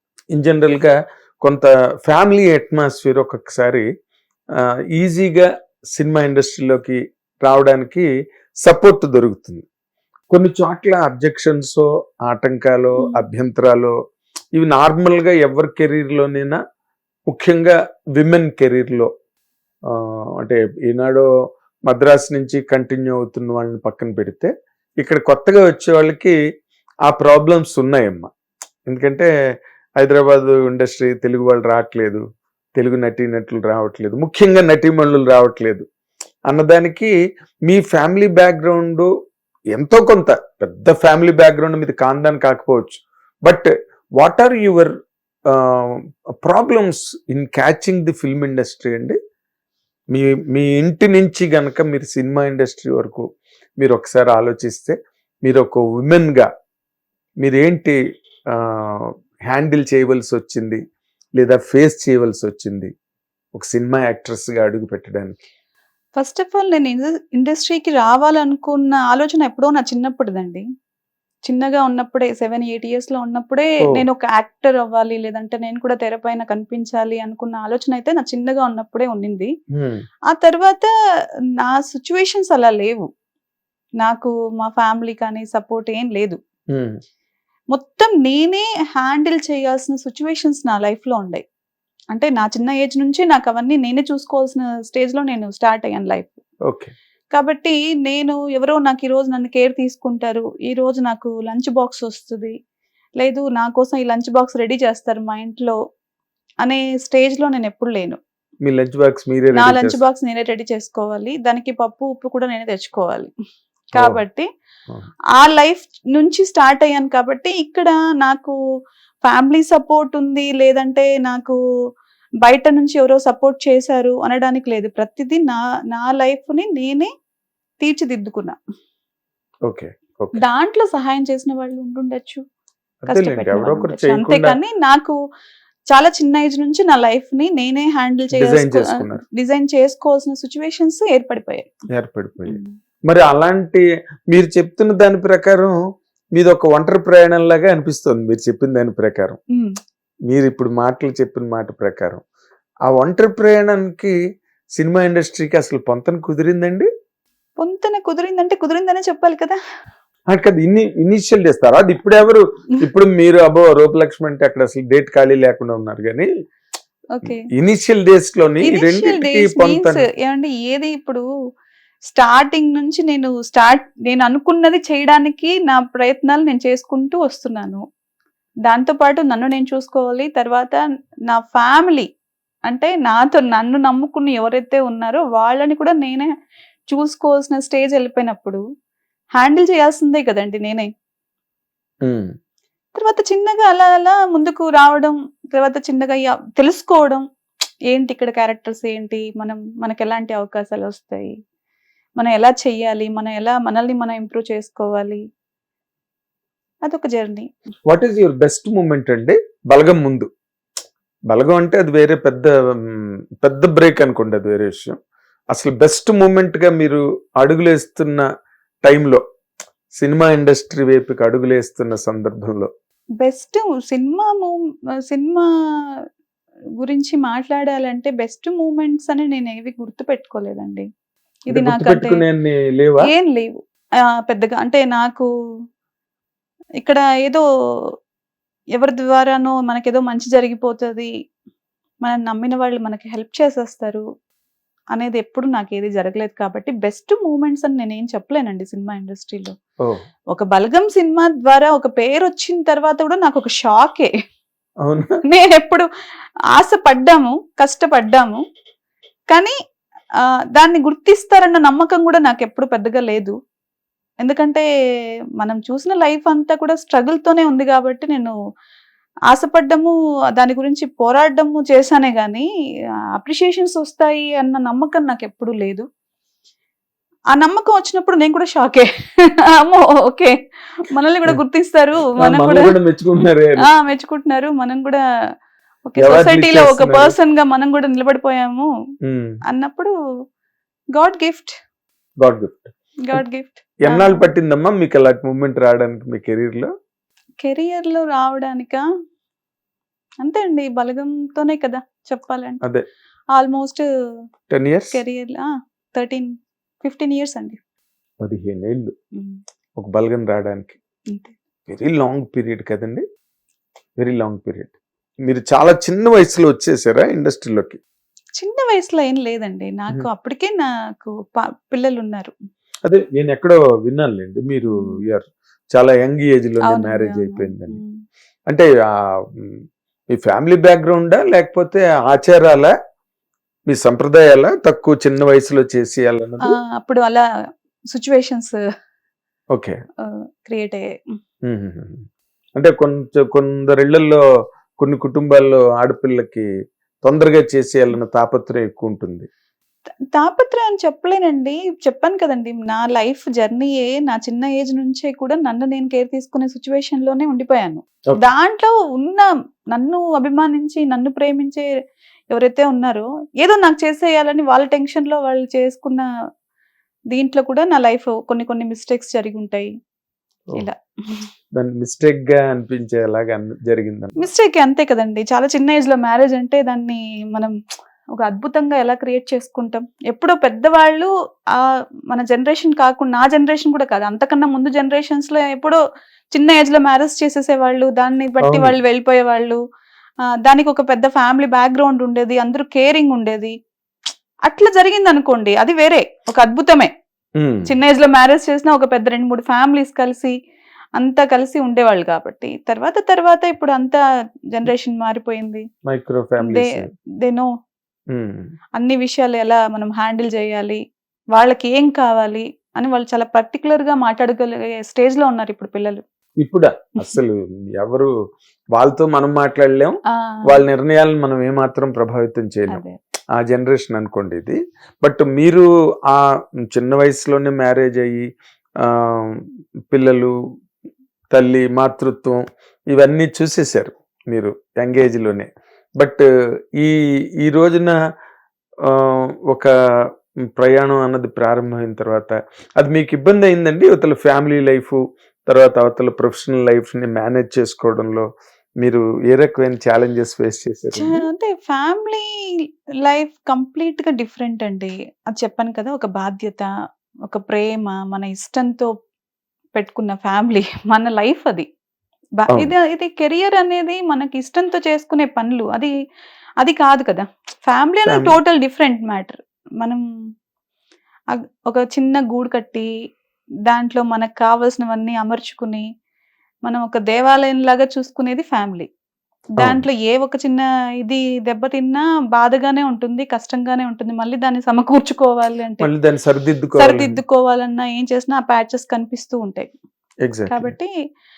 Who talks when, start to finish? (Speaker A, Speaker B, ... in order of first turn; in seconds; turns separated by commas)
Speaker A: 0.3-0.9, Speaker A: 1.4-3.9, Speaker A: 5.0-8.1, Speaker A: 8.6-9.6, Speaker A: 10.3-13.9, Speaker B: 13.0-13.2, Speaker A: 14.5-16.6, Speaker A: 17.3-19.1, Speaker A: 19.9-21.3, Speaker A: 21.9-24.5, Speaker A: 25.0-26.3, Speaker A: 27.1-28.3, Speaker A: 28.9-29.3, Speaker A: 30.0-32.2, Speaker A: 32.8-35.8, Speaker A: 36.5-37.1, Speaker A: 37.7-39.1, Speaker A: 39.7-43.7, Speaker A: 44.2-44.9, Speaker A: 45.5-49.2, Speaker A: 50.1-53.2, Speaker A: 53.8-56.5, Speaker A: 57.4-58.0, Speaker A: 58.5-60.8, Speaker A: 61.4-62.9, Speaker A: 63.5-65.4, Speaker B: 66.2-70.6, Speaker B: 71.5-79.5, Speaker A: 79.7-80.0, Speaker B: 80.3-80.9, Speaker B: 81.6-83.1, Speaker B: 84.0-86.4, Speaker A: 86.7-87.0, Speaker B: 87.7-91.4, Speaker B: 92.1-96.4, Speaker B: 97.3-102.5, Speaker B: 103.2-105.7, Speaker B: 106.6-108.2, Speaker A: 108.6-110.0, Speaker B: 109.5-113.3, Speaker B: 113.9-114.5, Speaker A: 113.9-114.2, Speaker B: 115.3-118.5, Speaker B: 119.2-121.6, Speaker B: 122.4-127.1, Speaker B: 127.8-128.6, Speaker A: 129.7-130.4, Speaker B: 130.4-132.4, Speaker A: 133.0-134.6, Speaker B: 133.1-135.2, Speaker B: 135.9-141.7, Speaker A: 138.3-139.2, Speaker A: 141.9-145.7, Speaker B: 142.4-142.7, Speaker A: 146.3-149.4, Speaker A: 150.3-152.2, Speaker A: 152.9-154.1, Speaker A: 154.7-156.9, Speaker B: 157.6-159.6, Speaker A: 160.3-166.3, Speaker B: 167.1-167.4, Speaker A: 167.5-170.0, Speaker B: 168.6-171.2, Speaker B: 172.1-177.8, Speaker B: 178.7-180.8, Speaker B: 181.3-182.1, Speaker B: 182.7-186.3, Speaker B: 186.9-188.6, Speaker B: 189.4-190.9, Speaker A: 192.0-192.3, Speaker B: 192.9-197.2, Speaker B: 197.9-201.3, Speaker B: 202.2-205.2, Speaker B: 206.8-207.4, Speaker A: 207.9-210.3, Speaker A: 211.3-215.0, Speaker A: 215.5-218.2, Speaker A: 218.8-219.2, Speaker A: 220.0-222.7, Speaker B: 223.2-224.5, Speaker B: 225.1-225.4, Speaker B: 226.8-230.8, Speaker B: 231.5-232.2, Speaker A: 231.5-233.1, Speaker B: 233.1-233.5, Speaker B: 234.3-235.3, Speaker B: 236.8-237.4, Speaker B: 238.8-241.1, Speaker B: 242.0-244.0, Speaker B: 244.9-249.5, Speaker B: 250.3-254.1, Speaker A: 254.8-255.2, Speaker B: 255.3-255.8, Speaker B: 256.5-258.4, Speaker B: 260.5-263.3, Speaker B: 264.2-264.6, Speaker B: 265.4-268.3, Speaker B: 269.3-272.4, Speaker B: 273.2-275.8, Speaker B: 277.3-278.9, Speaker B: 279.6-280.3, Speaker B: 280.9-282.7, Speaker A: 282.2-283.6, Speaker B: 283.7-285.0, Speaker B: 285.9-288.7, Speaker A: 286.0-287.1, Speaker A: 289.1-289.4, Speaker B: 289.5-289.9, Speaker B: 290.9-291.5, Speaker A: 292.2-293.2, Speaker B: 293.0-294.2, Speaker A: 293.8-296.7, Speaker B: 297.4-298.8, Speaker B: 300.2-302.6, Speaker B: 303.3-303.8, Speaker A: 304.5-305.0, Speaker B: 304.9-306.3, Speaker B: 306.8-307.6, Speaker A: 308.2-308.9, Speaker A: 309.8-310.8, Speaker A: 311.7-313.0, Speaker A: 314.0-314.7, Speaker A: 315.3-317.8, Speaker B: 318.4-322.3, Speaker A: 322.9-327.8, Speaker B: 326.7-328.0, Speaker A: 330.1-332.7, Speaker A: 333.7-336.6, Speaker B: 336.5-337.2, Speaker B: 337.9-338.6, Speaker A: 339.5-339.8, Speaker B: 340.4-340.9, Speaker A: 341.4-342.0, Speaker A: 342.6-344.2, Speaker A: 344.8-346.4, Speaker A: 347.0-349.3, Speaker B: 350.1-361.7, Speaker B: 362.3-366.1, Speaker B: 367.1-369.7, Speaker B: 370.6-371.2, Speaker A: 371.5-374.3, Speaker B: 374.2-377.5, Speaker B: 378.2-381.6, Speaker B: 382.1-385.8, Speaker B: 386.3-389.6, Speaker A: 388.4-388.7, Speaker B: 390.4-393.5, Speaker B: 394.4-396.9, Speaker A: 397.4-397.7, Speaker B: 397.6-400.3, Speaker B: 401.0-404.0, Speaker B: 404.5-405.6, Speaker A: 405.9-406.8, Speaker A: 408.1-408.5, Speaker B: 408.8-410.8, Speaker B: 411.3-416.0, Speaker A: 416.4-418.1, Speaker A: 418.7-420.0, Speaker A: 420.5-422.8, Speaker B: 422.7-422.9, Speaker A: 423.4-428.2, Speaker A: 428.9-429.4, Speaker A: 429.9-430.3, Speaker A: 431.3-432.4, Speaker A: 432.9-435.5, Speaker A: 436.8-437.9, Speaker A: 438.9-439.7, Speaker A: 440.6-448.2, Speaker A: 448.8-451.2, Speaker B: 450.9-452.3, Speaker B: 453.0-456.7, Speaker B: 457.3-458.9, Speaker B: 459.7-461.7, Speaker B: 462.4-465.9, Speaker B: 466.6-470.0, Speaker A: 468.1-468.4, Speaker B: 471.3-472.9, Speaker B: 473.7-475.8, Speaker B: 476.6-478.9, Speaker B: 479.6-485.9, Speaker A: 479.6-479.8, Speaker A: 485.8-487.2, Speaker B: 486.8-489.7, Speaker A: 490.2-490.7, Speaker B: 490.5-490.9